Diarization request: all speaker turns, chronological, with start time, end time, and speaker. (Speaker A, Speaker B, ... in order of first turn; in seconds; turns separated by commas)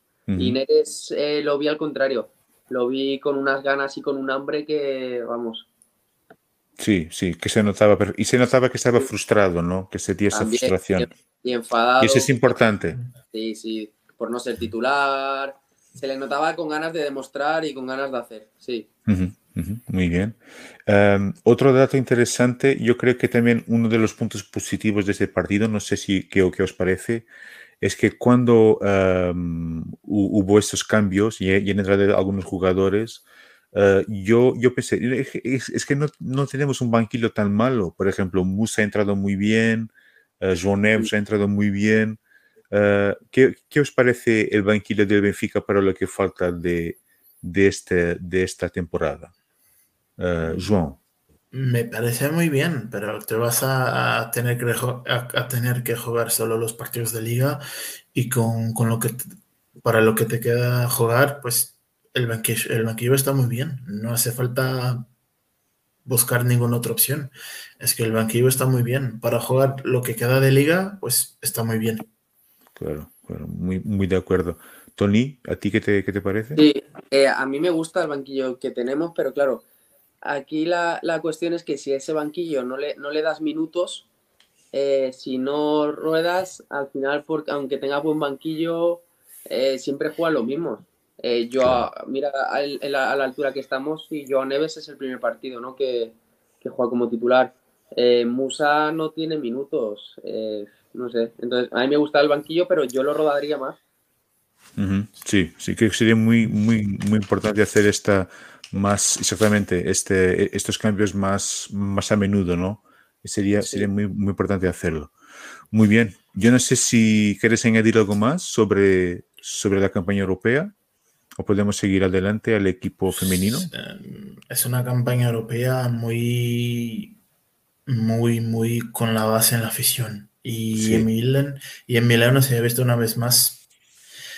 Speaker A: 0.3-0.6, Speaker B: 0.4-5.7, Speaker A: 6.8-11.1, Speaker B: 10.3-12.6, Speaker A: 12.0-13.0, Speaker B: 13.2-18.9, Speaker A: 19.1-27.3, Speaker A: 27.8-42.2, Speaker A: 42.7-49.3, Speaker A: 50.2-51.0, Speaker C: 51.5-59.3, Speaker C: 59.8-65.1, Speaker C: 66.1-72.1, Speaker A: 72.8-76.7, Speaker B: 76.6-79.6, Speaker B: 80.2-84.1, Speaker B: 84.7-103.8, Speaker A: 91.6-91.9, Speaker A: 104.8-115.1, Speaker B: 113.6-113.9, Speaker A: 115.7-120.7, Speaker A: 121.4-123.7, Speaker C: 123.7-127.2, Speaker C: 127.9-133.6, Speaker A: 130.7-131.1